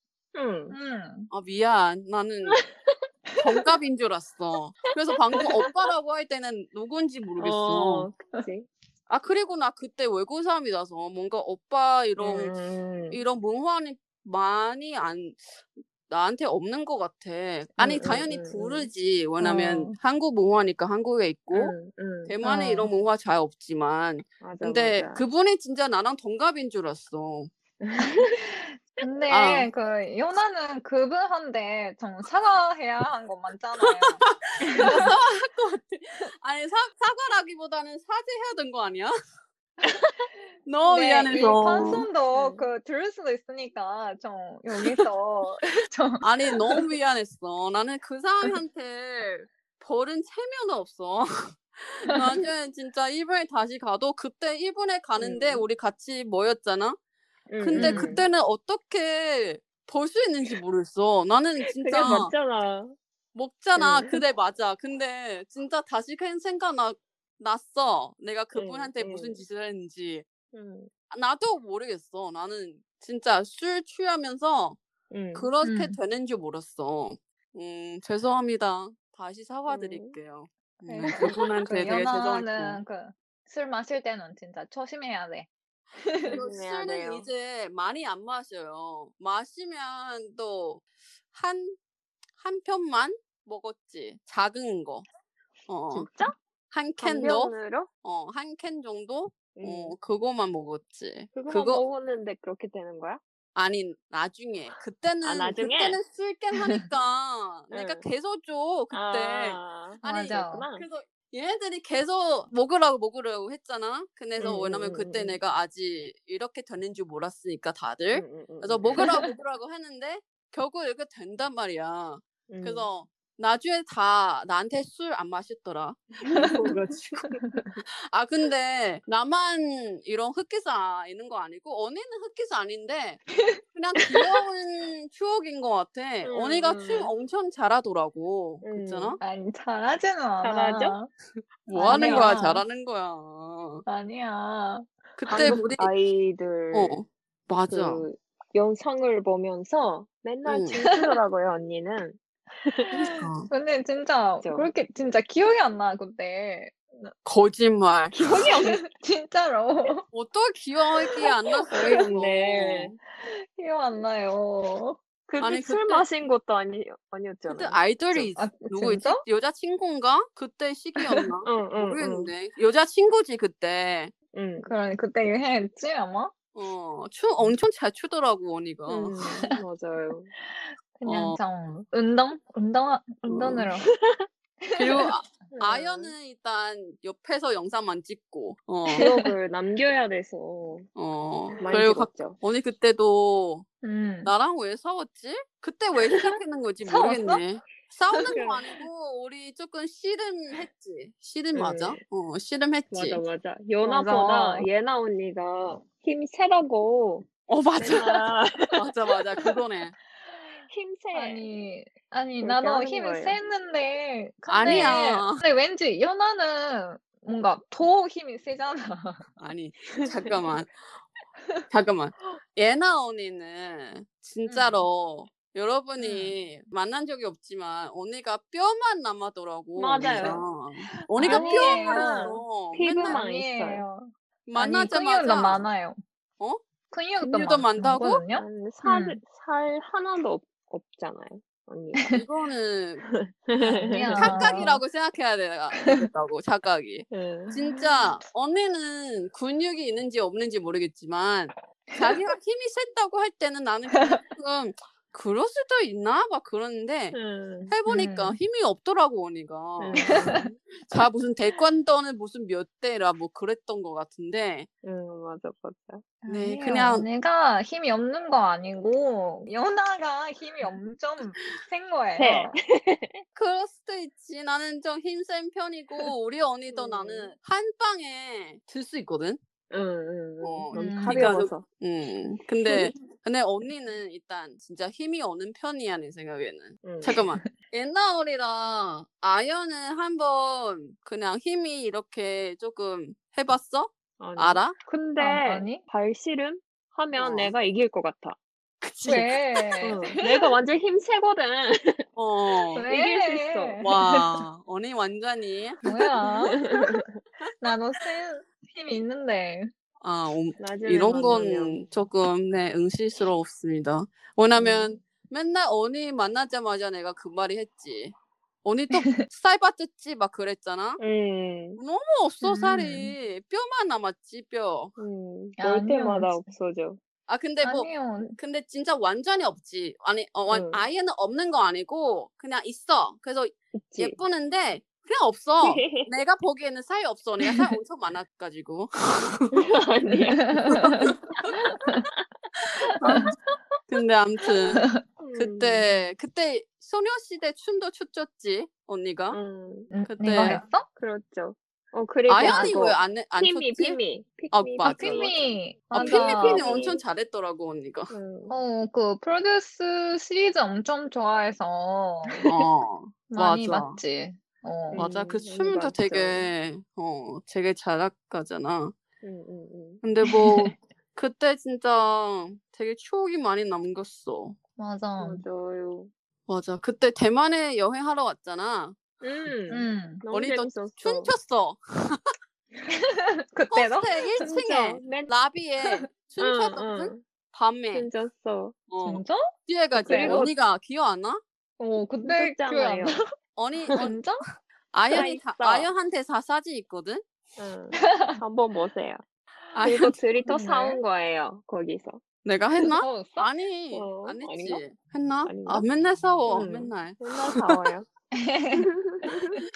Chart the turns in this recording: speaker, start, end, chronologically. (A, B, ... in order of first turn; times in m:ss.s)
0:00.3-0:00.8 A
0:00.7-0:01.3 B
0:01.3-0:02.6 C
0:02.5-0:03.0 A
0:03.4-0:08.1 C
0:07.4-0:08.7 A
0:09.1-0:21.7 C
0:12.2-0:13.2 A
0:17.8-0:18.9 A
0:19.4-0:20.0 B
0:21.5-0:22.4 A
0:22.3-0:27.5 C
0:22.4-0:22.9 B
0:24.4-0:25.2 A
0:27.8-0:29.6 A
0:28.0-0:35.0 B
0:29.3-0:29.7 C
0:33.8-0:39.1 C
0:39.8-0:40.2 B
0:40.6-0:42.1 C
0:40.8-0:46.8 B
0:42.3-0:42.7 A
0:46.2-0:57.0 C
0:55.2-0:55.6 A
0:57.5-0:58.2 A
0:57.6-1:02.3 C
0:57.7-0:58.2 B
1:01.6-1:03.0 A
1:03.3-1:10.2 C
1:03.8-1:04.2 A
1:08.5-1:09.4 A
1:10.5-1:10.9 A
1:11.1-1:14.8 C
1:15.1-1:15.5 A
1:15.3-1:22.8 C
1:15.6-1:16.0 B
1:19.7-1:20.1 A
1:20.9-1:26.4 B
1:21.2-1:21.7 A
1:26.3-1:27.3 A
1:26.3-1:31.8 C
1:32.4-1:35.1 C
1:35.7-1:36.1 C
1:35.9-1:36.3 A
1:36.7-1:41.8 C
1:37.0-1:37.9 A
1:39.5-1:39.9 A
1:41.3-1:43.2 A
1:43.5-2:19.2 C
1:45.2-1:46.0 A
1:47.7-1:48.1 A
1:48.9-1:50.8 A
1:50.0-1:50.7 B
1:54.4-1:55.4 A
1:58.1-1:59.1 A
2:02.5-2:02.9 A
2:06.4-2:07.8 A
2:16.2-2:17.1 A
2:18.6-2:19.2 A
2:19.2-2:21.1 B
2:20.4-2:21.0 A
2:21.6-2:23.8 C
2:21.7-2:22.6 B
2:21.8-2:22.4 A
2:23.8-2:24.9 B
2:25.2-2:25.9 C
2:25.3-2:27.0 A
2:26.7-2:28.0 C
2:27.7-2:32.9 A
2:30.4-2:30.8 C
2:30.8-2:31.1 B
2:32.8-2:37.1 B
2:32.9-2:33.5 C
2:34.4-2:34.7 A
2:37.2-2:38.4 C
2:38.1-2:38.8 A
2:38.2-2:40.0 B
2:40.1-2:42.9 C
2:41.7-2:42.2 B
2:41.8-2:43.0 A
2:43.3-2:45.0 B
2:45.3-2:48.3 A
2:45.4-2:46.0 C
2:47.5-2:54.1 C
2:48.3-2:49.2 B
2:51.4-2:52.3 A
2:54.3-2:54.7 A
2:54.6-2:56.3 B
2:56.5-2:59.2 C
2:58.9-3:00.3 A
3:00.4-3:03.9 B
3:01.0-3:01.4 C
3:03.3-3:03.6 C
3:03.8-3:04.2 A
3:04.6-3:05.1 B
3:04.8-3:09.0 C
3:05.5-3:06.1 A
3:08.9-3:09.2 B
3:08.9-3:10.9 A
3:10.9-3:13.6 C
3:11.6-3:12.4 A
3:13.8-3:14.3 B
3:14.2-3:23.2 C
3:16.8-3:17.4 B
3:18.2-3:18.6 A
3:21.5-3:22.0 A
3:22.9-3:28.7 A
3:23.8-3:24.7 B
3:27.5-3:29.9 C
3:30.7-3:31.5 A
3:31.1-3:39.2 B
3:32.4-3:33.4 A
3:34.5-3:35.4 C
3:34.6-3:35.0 A
3:39.4-3:40.7 C
3:41.7-3:53.2 C
3:44.4-3:44.8 B
3:46.0-3:46.3 B
3:49.8-3:50.4 A
3:50.0-3:50.3 B
3:51.0-3:52.4 B
3:51.2-3:53.8 A
3:53.0-3:56.0 B
3:54.5-3:55.7 C
3:56.9-3:59.2 B
3:57.2-3:58.2 C
3:58.3-4:02.1 A
4:02.1-4:03.1 C
4:03.1-4:04.6 A
4:03.6-4:04.8 B
4:04.1-4:24.7 C
4:07.1-4:07.6 A
4:13.9-4:14.2 B
4:17.1-4:17.7 A
4:17.9-4:18.4 B
4:19.8-4:20.6 A
4:20.0-4:20.3 B
4:24.8-4:26.0 A
4:26.2-4:32.6 B
4:26.3-4:27.1 C
4:32.2-4:33.0 A
4:33.3-4:39.4 C
4:36.7-4:37.3 A
4:39.7-4:41.6 A
4:40.4-4:54.8 C
4:40.7-4:41.4 B
4:46.8-4:47.2 A
4:47.1-4:47.5 B
4:54.2-4:58.4 A
4:55.2-4:55.8 B
4:57.2-4:57.5 C
4:58.8-4:59.7 C
4:59.0-5:00.5 B
4:59.8-5:02.0 A
5:02.2-5:02.8 C
5:02.7-5:04.4 B
5:02.8-5:03.9 A
5:03.8-5:05.8 C
5:05.8-5:06.6 B
5:05.8-5:07.1 A
5:07.6-5:09.7 B
5:10.0-5:21.0 C
5:10.6-5:11.8 A
5:14.5-5:14.9 A
5:18.9-5:19.2 B
5:21.0-5:21.8 A
5:21.8-5:25.0 C
5:22.4-5:23.1 B
5:25.0-5:27.0 A
5:25.6-5:26.4 B
5:27.3-5:39.5 C
5:27.6-5:28.4 B
5:30.5-5:30.8 A
5:33.7-5:34.2 A
5:35.6-5:36.1 A
5:37.4-5:37.7 B
5:39.5-5:41.1 A
5:40.1-5:42.0 B
5:41.9-5:42.2 A
5:43.0-5:43.3 C
5:43.0-5:43.3 B
5:43.1-5:43.4 A
5:43.9-5:49.4 C
5:44.7-5:45.0 B
5:45.2-5:45.8 A
5:49.3-5:57.0 A
5:49.9-5:50.8 B
5:50.0-5:50.6 C
5:52.3-5:54.0 C
5:52.4-5:52.8 B
5:54.5-5:55.3 C
5:54.8-5:56.7 B
5:55.9-5:58.1 C
5:58.1-5:58.6 A
5:58.5-6:02.4 B
6:02.3-6:02.6 A
6:02.4-6:04.0 C
6:03.3-6:05.1 B
6:04.9-6:06.5 A
6:04.9-6:08.9 C
6:09.2-6:10.0 A
6:10.0-6:14.6 C
6:10.2-6:10.8 B
6:14.8-6:15.4 B
6:15.2-6:16.1 A
6:16.5-6:19.0 C
6:19.2-6:21.3 A
6:19.7-6:20.2 B
6:20.3-6:22.3 C
6:22.9-6:24.5 B
6:23.7-6:28.1 C
6:24.4-6:25.3 A
6:26.4-6:27.2 A
6:27.9-6:28.7 A
6:28.9-6:31.4 C
6:29.0-6:29.5 B
6:29.9-6:30.5 A
6:30.0-6:30.5 B
6:31.8-6:33.2 B
6:32.2-6:33.2 A
6:33.6-6:34.2 C
6:33.8-6:34.1 A
6:34.0-6:34.4 B
6:34.9-6:37.2 C
6:35.1-6:35.9 A
6:37.6-6:39.2 A
6:37.9-6:38.4 B
6:39.7-6:40.2 C
6:39.8-6:42.2 A
6:40.4-6:41.0 B
6:42.4-6:47.7 C
6:42.8-6:43.5 B
6:43.9-6:44.8 A
6:45.4-6:45.9 A
6:46.5-6:48.1 A
6:48.3-6:48.8 B
6:48.7-6:49.6 A